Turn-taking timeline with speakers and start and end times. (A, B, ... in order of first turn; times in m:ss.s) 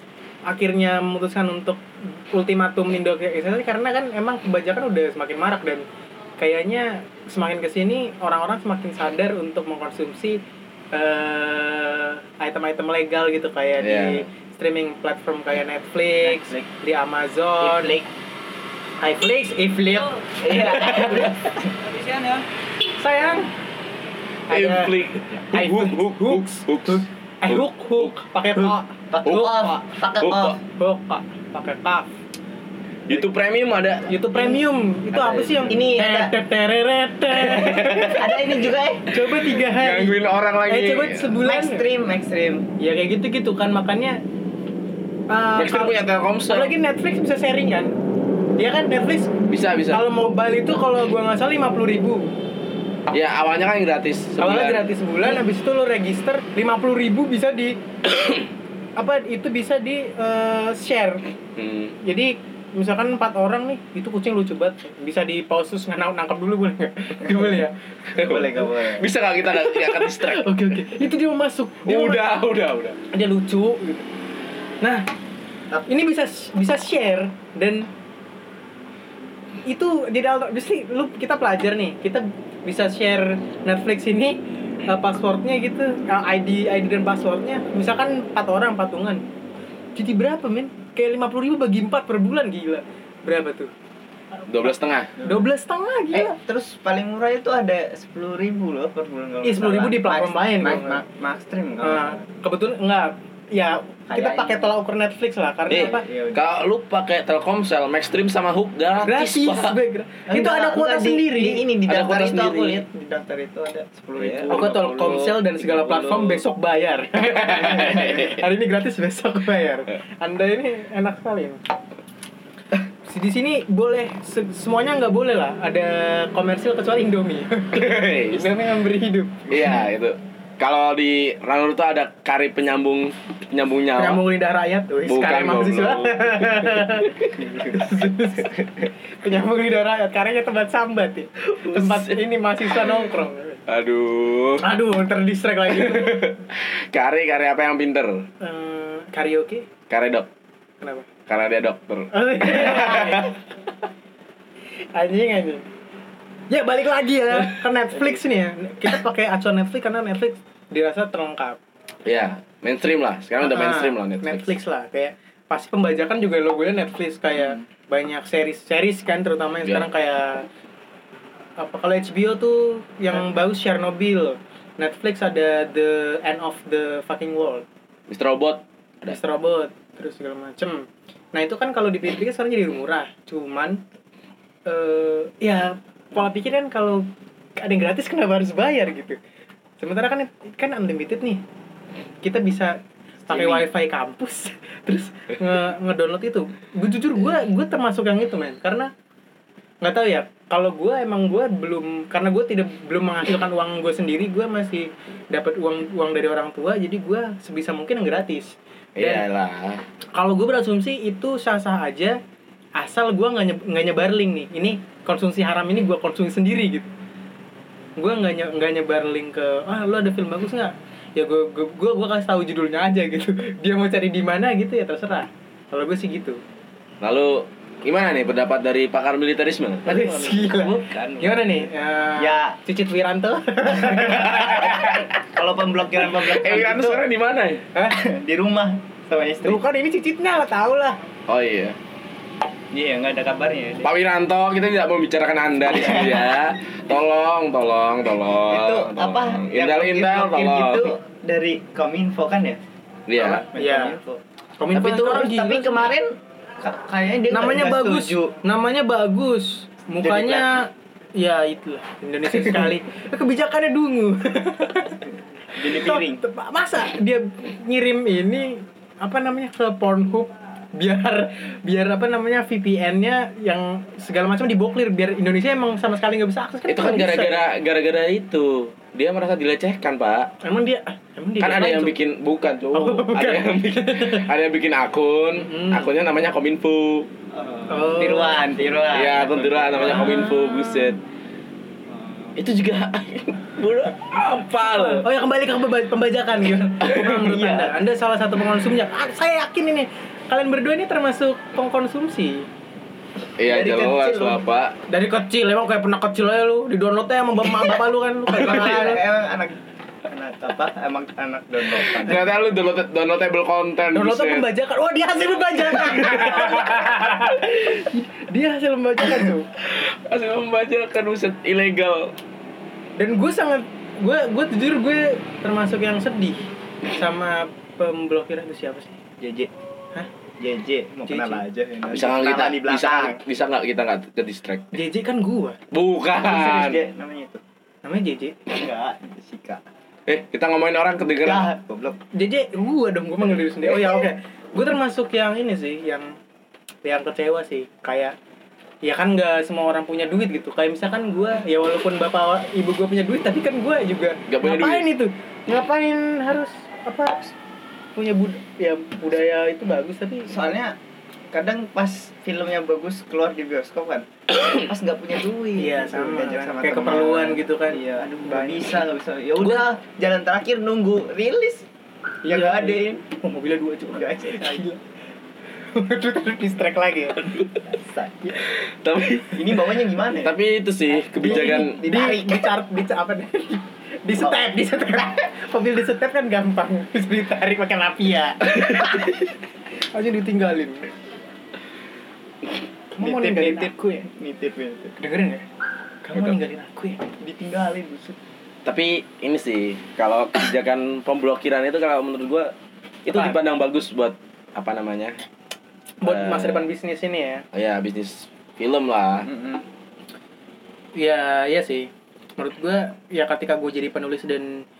0:00.5-0:01.8 A
0:02.3-0:05.8 A
0:06.4-0:10.4 A
0:10.9-0:17.9 A
0:13.8-0:14.2 B
0:16.2-0:16.7 C
0:17.6-0:18.1 C
0:19.0-0:21.4 A
0:20.4-0:22.4 C
0:23.0-0:23.5 A
0:24.5-0:25.0 A
0:24.5-0:28.1 B
0:25.5-0:29.4 A
0:29.1-0:30.6 C
0:29.2-0:30.6 B
0:30.8-0:32.1 A
0:33.1-0:34.2 B
0:34.1-0:38.3 A
0:35.1-0:35.8 B
0:35.7-0:36.4 C
0:37.6-0:39.0 C
0:39.1-0:41.9 A
0:39.5-0:41.4 B
0:41.4-0:42.6 C
0:42.8-0:44.2 A
0:45.3-0:47.9 A
0:45.6-0:46.7 B
0:48.6-0:49.3 A
0:49.5-0:50.0 B
0:49.9-0:52.3 A
0:53.1-0:54.9 B
0:54.4-0:57.8 A
0:59.0-1:01.3 A
1:01.6-1:02.0 B
1:02.0-1:07.7 A
1:08.1-1:10.5 B
1:08.2-1:09.1 C
1:09.5-1:12.3 A
1:11.8-1:13.0 B
1:13.1-1:14.1 A
1:14.8-1:15.0 A
1:15.9-1:17.9 A
1:19.7-1:29.2 A
1:30.0-1:33.7 A
1:34.5-1:35.1 B
1:35.2-1:35.4 C
1:35.2-1:36.4 A
1:36.1-1:42.2 C
1:39.4-1:41.0 A
1:41.8-1:46.0 A
1:44.1-1:44.7 C
1:45.7-1:46.4 C
1:45.7-1:49.8 B
1:49.0-1:51.6 A
1:50.3-1:56.4 C
1:51.8-1:52.8 B
1:54.2-1:54.8 B
1:54.5-2:01.6 A
1:57.4-1:58.3 B
1:57.6-1:58.3 C
2:03.0-2:09.5 A
2:07.7-2:08.6 B
2:09.5-2:14.2 B
2:13.9-2:23.6 A
2:15.1-2:17.2 B
2:17.3-2:18.0 C
2:21.5-2:22.2 B
2:23.7-2:24.6 B
2:24.6-2:26.4 A
2:25.9-2:28.2 B
2:28.4-2:29.6 A
2:29.9-2:30.3 B
2:30.8-2:31.1 A
2:31.3-2:33.3 B
2:32.1-2:33.4 A
2:34.9-2:35.6 A
2:36.5-2:41.6 A
2:37.9-2:38.2 C
2:42.0-2:44.6 B
2:43.4-2:50.4 A
2:51.6-2:57.6 A
2:58.1-2:59.2 B
2:59.1-3:03.8 A
3:04.6-3:07.0 A
3:07.6-3:09.2 A
3:09.8-3:11.4 A
3:12.2-3:18.9 A
3:13.3-3:13.6 C
3:19.8-3:29.2 A
3:29.0-3:29.8 B
3:30.2-3:32.2 A
3:32.8-3:36.9 A
3:38.0-3:46.4 A
3:47.0-3:49.8 B
3:49.8-3:52.6 C
3:49.8-3:54.8 A
3:53.9-3:57.0 C
3:54.4-3:55.0 B
3:56.0-3:57.6 B
3:57.8-3:59.6 C
3:59.4-4:01.0 A
4:01.3-4:01.8 B
4:02.7-4:03.9 C
4:03.8-4:10.9 B
4:05.7-4:06.3 C
4:08.5-4:12.6 C
4:13.1-4:13.4 B
4:13.2-4:14.2 C
4:13.5-4:14.0 A
4:14.6-4:15.8 A
4:14.7-4:15.2 B
4:14.9-4:18.3 C
4:17.3-4:25.0 A
4:20.0-4:20.5 C
4:25.5-4:26.2 C
4:25.6-4:37.4 A
4:36.7-4:40.3 B
4:40.4-4:42.0 A
4:41.4-4:47.1 B
4:42.7-4:44.3 A
4:45.4-4:45.9 A
4:47.3-4:50.3 C
4:47.7-4:48.5 A
4:48.9-4:51.0 B
4:49.8-4:50.9 A
4:51.9-4:52.3 C
4:52.4-4:55.0 B
4:54.5-5:02.5 A
4:56.9-4:57.8 C
5:03.4-5:04.7 B
5:03.4-5:04.4 C
5:04.9-5:09.0 A
5:08.3-5:12.4 C
5:11.7-5:14.5 B
5:13.9-5:19.5 A
5:15.7-5:16.9 B
5:19.6-5:22.1 B
5:23.0-5:29.0 A
5:29.2-5:29.5 C
5:30.4-5:33.2 C
5:31.1-5:31.4 A
5:31.9-5:34.7 B
5:34.7-5:35.6 A
5:35.7-5:36.8 B
5:36.2-5:37.4 C
5:37.8-5:38.4 A
5:38.5-5:39.6 C
5:40.1-5:41.5 B
5:41.0-5:42.0 C
5:42.1-5:46.1 A
5:46.8-5:48.1 A
5:48.8-5:57.3 A
5:54.3-5:54.9 B
5:58.0-6:00.3 A
6:00.3-6:00.8 C
6:01.3-6:11.7 C
6:05.6-6:08.8 A
6:09.4-6:09.7 A
6:12.2-6:14.8 A
6:12.2-6:13.2 C
6:13.8-6:14.6 C
6:15.7-6:17.3 A
6:17.6-6:18.2 C
6:18.5-6:21.8 B
6:19.3-6:20.3 C
6:21.0-6:22.4 C
6:21.2-6:29.0 A
6:29.9-6:30.9 A
6:32.9-6:34.1 A
6:33.0-6:34.9 C
6:35.0-6:35.4 A
6:36.0-6:37.0 A
6:37.2-6:38.2 C
6:38.6-6:42.5 B
6:43.0-6:45.2 B
6:43.1-6:43.4 A
6:46.0-6:47.4 A
6:46.0-6:46.6 B
6:47.5-6:49.3 B
6:49.2-6:49.6 C
6:51.0-6:54.6 A